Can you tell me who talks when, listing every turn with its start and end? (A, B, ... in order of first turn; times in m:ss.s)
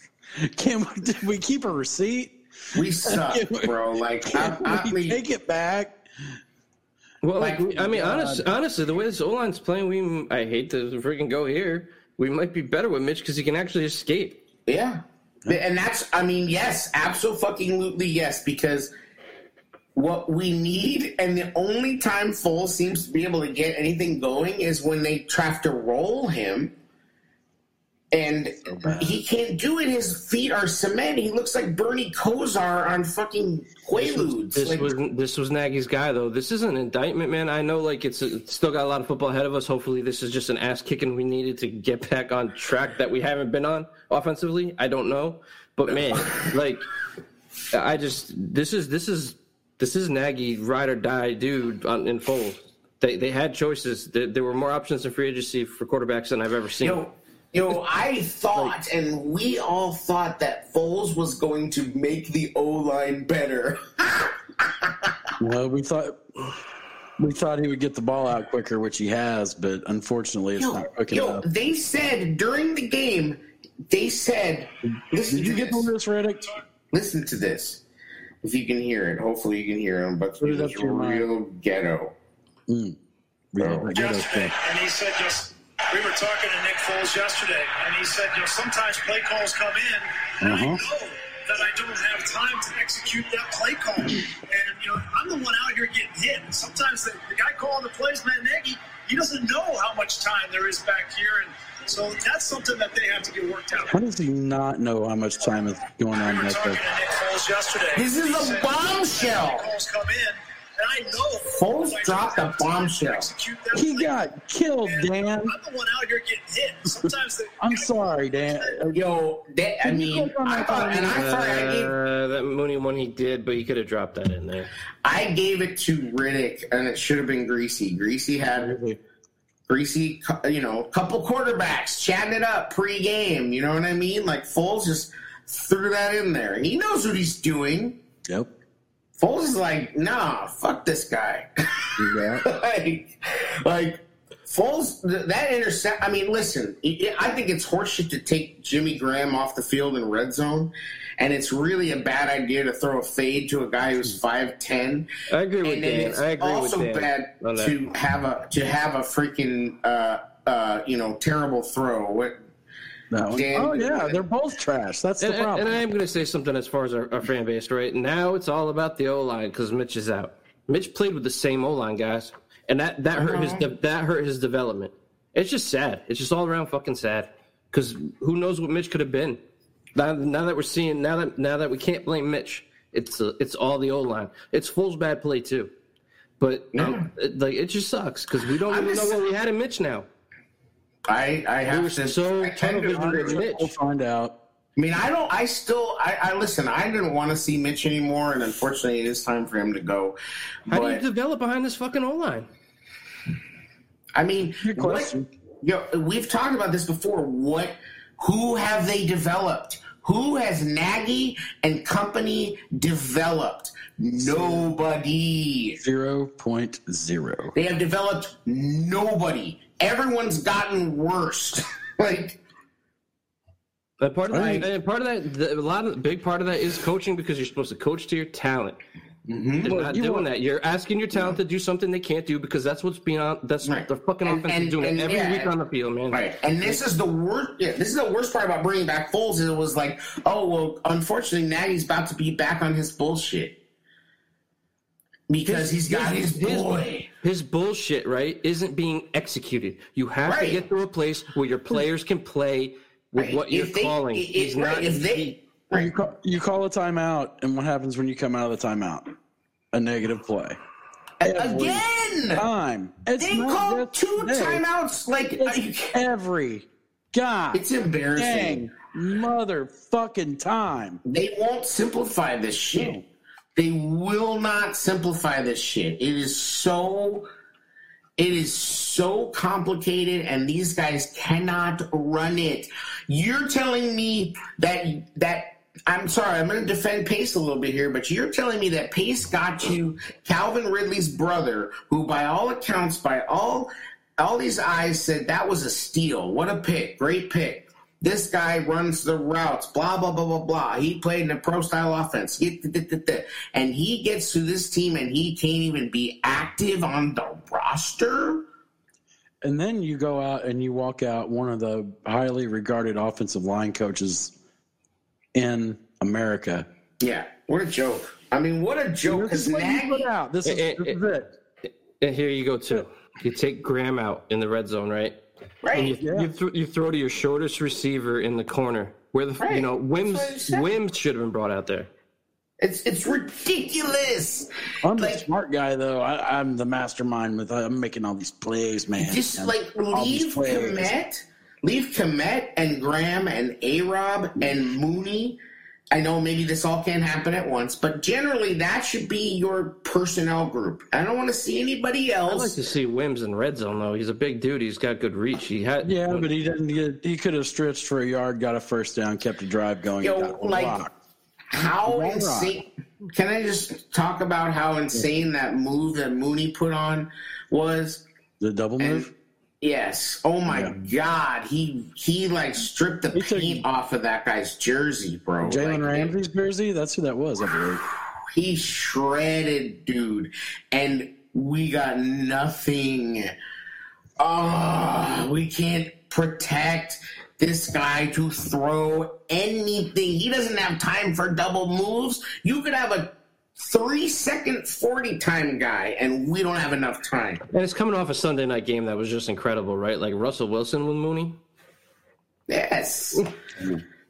0:00.4-0:03.7 A
0:02.7-0:05.2 B
0:04.2-0:05.9 A
0:07.2-0:14.4 C
0:07.4-0:07.6 B
0:07.7-0:08.5 A
0:14.6-0:18.9 B
0:19.9-0:26.7 B
0:28.1-0:34.9 B
0:28.7-0:29.2 A
0:34.0-0:46.9 C
0:47.7-0:57.0 C
0:56.8-1:05.2 B
1:05.4-1:06.2 A
1:07.2-1:11.4 A
1:10.6-1:15.9 B
1:15.2-1:16.5 A
1:16.9-1:17.8 B
1:18.4-1:22.1 B
1:20.4-1:21.3 A
1:22.7-1:23.0 A
1:23.5-1:24.5 A
1:23.6-1:23.9 B
1:23.9-1:43.9 D
1:30.4-1:30.8 A
1:43.9-1:46.8 A
1:46.1-1:54.2 D
1:47.9-1:49.7 B
1:51.4-1:53.3 B
1:53.7-1:55.5 A
1:54.8-1:58.8 D
1:57.6-1:59.0 A
1:58.9-2:01.9 B
1:59.8-2:01.2 A
2:01.1-2:04.7 C
2:05.0-2:08.7 B
2:08.5-2:09.0 A
2:09.7-2:18.0 B
2:19.2-2:35.1 B
2:22.0-2:22.4 A
2:35.3-2:37.7 C
2:35.6-2:42.4 B
2:43.1-2:45.8 A
2:43.3-2:44.2 B
2:45.2-2:59.4 C
2:53.2-2:53.7 B
2:59.9-3:05.7 C
3:06.4-3:10.1 C
3:06.7-3:07.1 B
3:08.7-3:09.2 B
3:11.1-3:13.4 B
3:11.7-3:13.7 C
3:12.9-3:14.3 A
3:14.8-3:20.1 B
3:20.7-3:21.0 B
3:20.7-3:22.5 C
3:24.2-3:35.8 B
3:24.6-3:25.3 A
3:34.2-3:34.7 A
3:35.8-3:37.5 A
3:37.5-3:42.4 B
3:44.0-3:48.8 C
3:44.3-3:44.7 A
3:44.3-3:44.7 B
3:49.3-3:49.7 B
3:49.6-3:50.2 A
3:49.6-3:56.8 C
3:53.6-3:55.5 B
3:56.1-4:03.6 B
4:05.3-4:07.1 B
4:05.4-4:15.3 C
4:10.2-4:10.6 B
4:13.2-4:15.9 B
4:15.7-4:19.1 A
4:19.7-4:20.6 A
4:21.2-4:22.4 B
4:21.2-4:24.6 A
4:23.2-4:26.0 B
4:25.4-4:31.0 A
4:27.5-4:28.6 B
4:31.0-4:33.0 B
4:32.7-4:33.0 A
4:33.5-4:37.2 B
4:38.2-5:08.4 B
5:09.4-5:14.3 A
5:15.3-5:16.6 A
5:17.0-5:20.1 B
5:19.0-5:21.3 A
5:20.4-5:21.0 C
5:22.0-5:25.2 C
5:25.6-5:26.0 B
5:25.7-5:31.9 C
5:25.7-5:26.3 A
5:29.4-5:30.7 B
5:32.6-5:35.2 B
5:34.8-5:40.9 A
5:39.0-5:45.4 B
5:45.9-5:52.6 B
5:52.3-5:56.3 C
5:55.8-6:00.9 A
6:00.0-6:00.8 B
6:01.5-6:08.0 B
6:01.8-6:02.5 A
6:08.4-6:09.1 A
6:08.8-6:09.1 B
6:09.6-6:16.1 B
6:10.5-6:10.8 A
6:13.1-6:13.6 A
6:15.4-6:17.8 A
6:18.3-6:23.3 B
6:24.2-6:37.4 B
6:37.5-6:41.4 C
6:42.5-6:43.2 B